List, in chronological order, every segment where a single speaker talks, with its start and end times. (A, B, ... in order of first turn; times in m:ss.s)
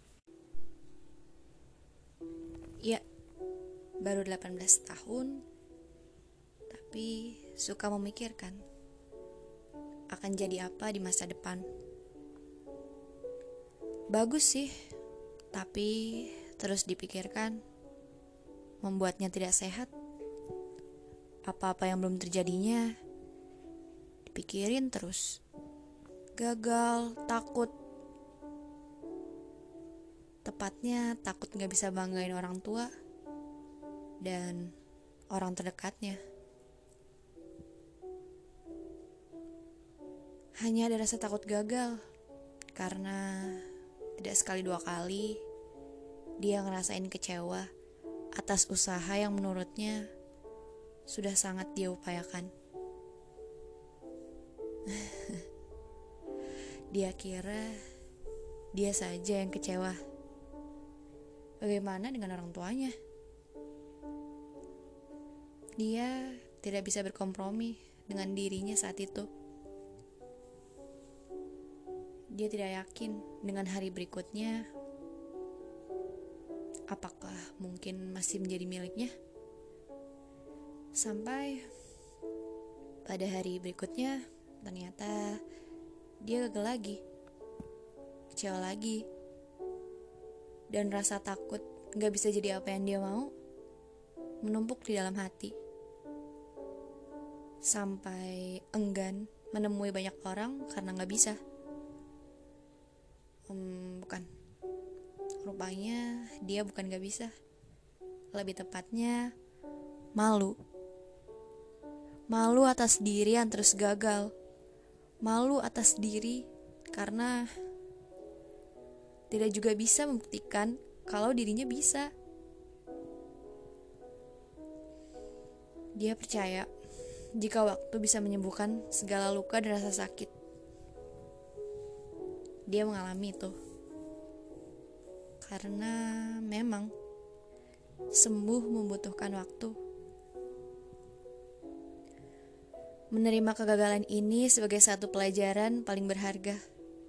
0:04.0-0:05.4 A
0:06.7-0:08.6 A
0:10.1-0:11.6 A
0:14.1-0:14.7 A
0:15.5-0:17.6 A
0:18.8-0:19.9 A
0:21.5-0:22.9 A
0:24.3-0:25.4 A
0:26.4-0:27.7 A
0:30.4-0:32.9 A
0:34.2-0:34.7 A
0:35.3-0:36.2 A
0:40.6-0:42.0 A
0:42.7-0:45.4 A
0:46.4-0:47.7 A
0:48.3-0:50.1 A
0:51.1-0:52.5 A
0:54.9-0:55.4 A
0:56.9-0:57.8 A
0:58.7-1:00.0 A
1:01.6-1:03.0 A
1:05.8-1:09.3 A
1:12.3-1:14.7 A
1:16.9-1:19.1 A
1:21.0-1:21.7 A
1:23.0-1:25.4 A
1:26.2-1:27.0 A
1:28.3-1:29.0 A
1:30.7-1:33.3 A
1:34.4-1:35.6 A
1:37.6-1:41.4 A
1:43.5-1:44.3 A
1:45.4-1:47.3 A
1:48.3-1:49.3 A
1:50.1-1:50.6 A
1:52.3-1:54.3 A
1:55.2-1:57.5 A
1:59.3-2:02.1 A
2:06.0-2:06.7 A
2:07.3-2:10.3 A
2:12.7-2:13.6 A
2:15.4-2:16.9 A
2:18.1-2:19.8 A
2:23.1-2:26.6 A